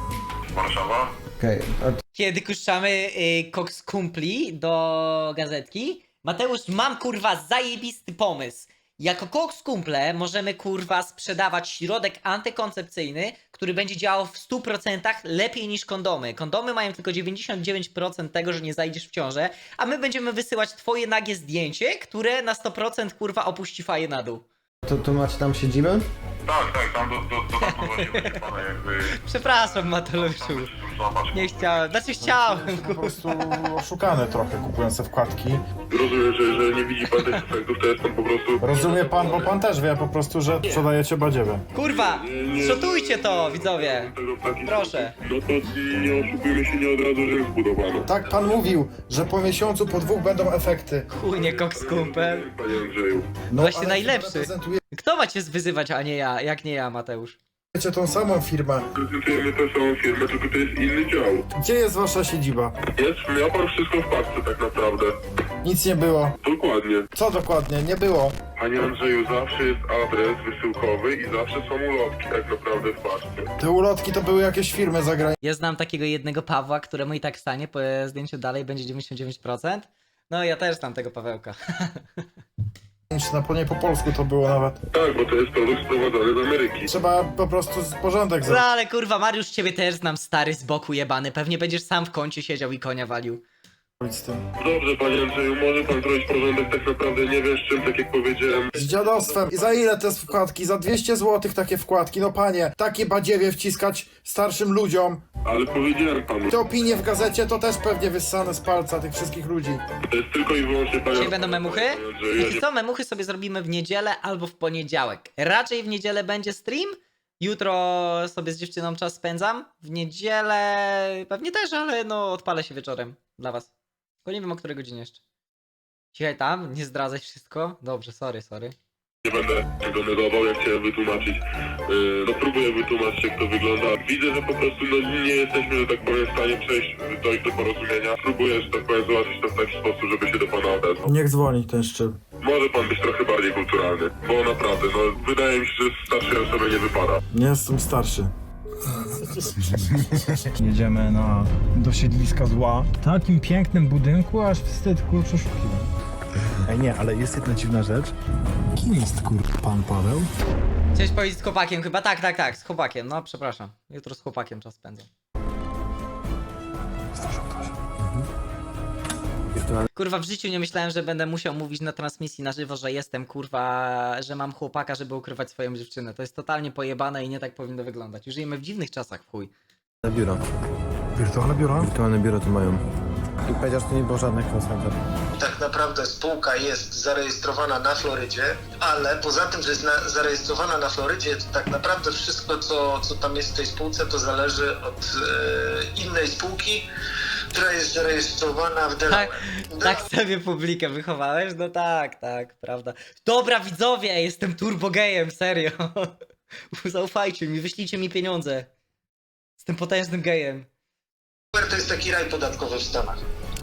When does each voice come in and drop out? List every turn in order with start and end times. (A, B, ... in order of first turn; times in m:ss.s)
0:01.4-0:02.0 A
0:02.1-0:24.4 B
0:24.8-0:26.0 A
0:27.6-0:28.4 B
0:29.2-0:30.7 B
0:31.3-0:33.4 B
0:32.2-0:35.6 C
0:35.9-0:39.6 D
0:38.6-0:41.7 C
0:41.8-0:44.1 B
0:41.8-0:48.1 D
0:44.7-0:45.1 B
0:48.0-0:51.1 C
0:51.1-0:52.5 B
0:51.3-0:53.3 D
0:53.5-0:54.8 C
0:53.6-0:57.4 B
0:57.7-0:58.9 C
0:59.0-1:01.5 D
1:01.5-1:02.8 C
1:03.0-1:05.2 D
1:05.6-1:06.4 C
1:06.4-1:07.1 D
1:07.1-1:08.4 C
1:08.6-1:13.5 D
1:13.6-1:15.4 C
1:15.4-1:22.2 B
1:23.1-1:24.8 C
1:24.9-1:26.9 D
1:26.9-1:28.6 C
1:28.4-1:33.4 B
1:34.0-1:34.4 C
1:34.6-1:39.4 D
1:38.7-1:45.2 C
1:45.4-1:46.5 D
1:46.5-1:49.8 C
1:50.0-1:52.6 D
1:51.1-2:03.7 B
2:04.2-2:05.2 B
2:06.1-2:08.8 B
2:09.2-2:21.1 D
2:21.0-2:22.2 C
2:22.4-2:27.2 D
2:27.3-2:28.3 C
2:28.9-2:35.9 C
2:36.7-2:38.1 C
2:38.7-2:40.3 C
2:41.0-2:45.1 B
2:47.2-2:47.7 C
2:49.5-2:49.8 A
2:49.9-2:59.5 B
3:00.0-3:00.4 A
3:01.2-3:01.9 C
3:01.7-3:02.8 A
3:03.4-3:05.0 A
3:05.4-3:16.9 E
3:17.5-3:20.1 E
3:19.1-3:26.2 B
3:26.7-3:28.7 B
3:29.6-3:30.7 B
3:31.5-3:33.2 E